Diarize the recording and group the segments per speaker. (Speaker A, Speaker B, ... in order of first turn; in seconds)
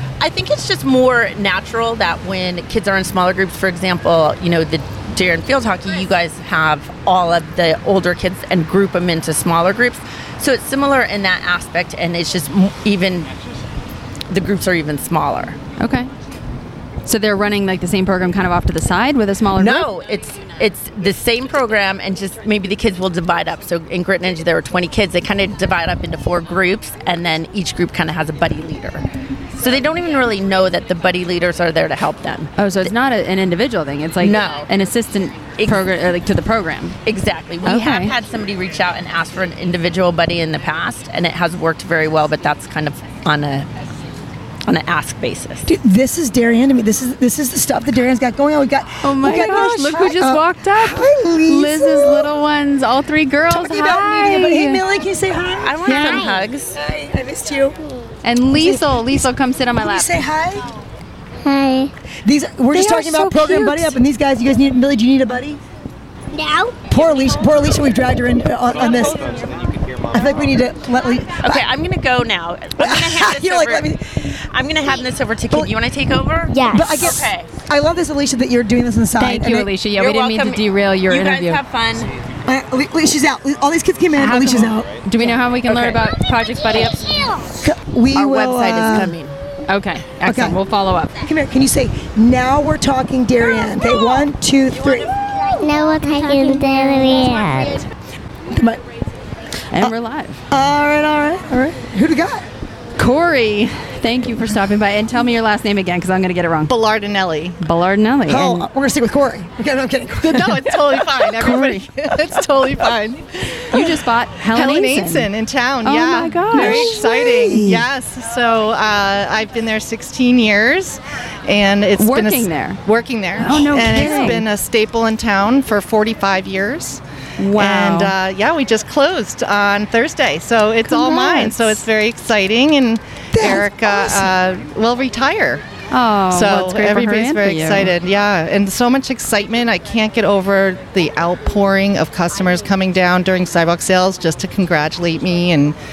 Speaker A: 0.2-13.3, 14.3-15.6, 19.6-29.1, 29.6-32.9, 34.2-34.7, 35.6-35.8, 37.1-43.7, 44.7-45.7, 55.6-56.8, 71.4-73.9, 74.5-77.5, 79.9-82.1, 85.7-86.0, 88.1-89.3
Speaker B: 15.8-16.1, 17.1-19.9, 32.6-37.0, 37.6-38.1, 49.0-54.8, 55.9-56.2, 58.2-60.2, 62.7-64.0, 79.2-81.6, 84.2-87.3, 89.7-91.1, 96.2-97.1, 99.7-100.4, 103.0-106.8, 107.6-108.7, 111.4-111.9, 113.7-115.3, 115.8-117.0, 122.0-122.8, 123.4-124.4, 127.4-128.1, 130.9-131.8, 135.9-137.9
Speaker C: 45.7-52.3, 53.5-57.8, 58.6-59.3, 59.8-60.7, 62.2-65.6, 66.9-69.5, 70.1-71.7, 72.8-74.1, 76.7-79.7, 82.5-84.9, 87.6-89.2, 90.3-90.6, 91.2-95.2, 98.5-98.8, 100.5-102.4, 108.3-111.3, 116.5-117.9, 123.5-124.4, 133.3-134.3
Speaker D: 56.0-56.4, 61.4-61.9, 66.3-66.8, 76.5-77.3, 87.1-87.5, 95.5-97.8
Speaker E: 106.7-107.6, 110.2-113.3, 114.5-127.0, 127.5-135.6, 136.3-145.8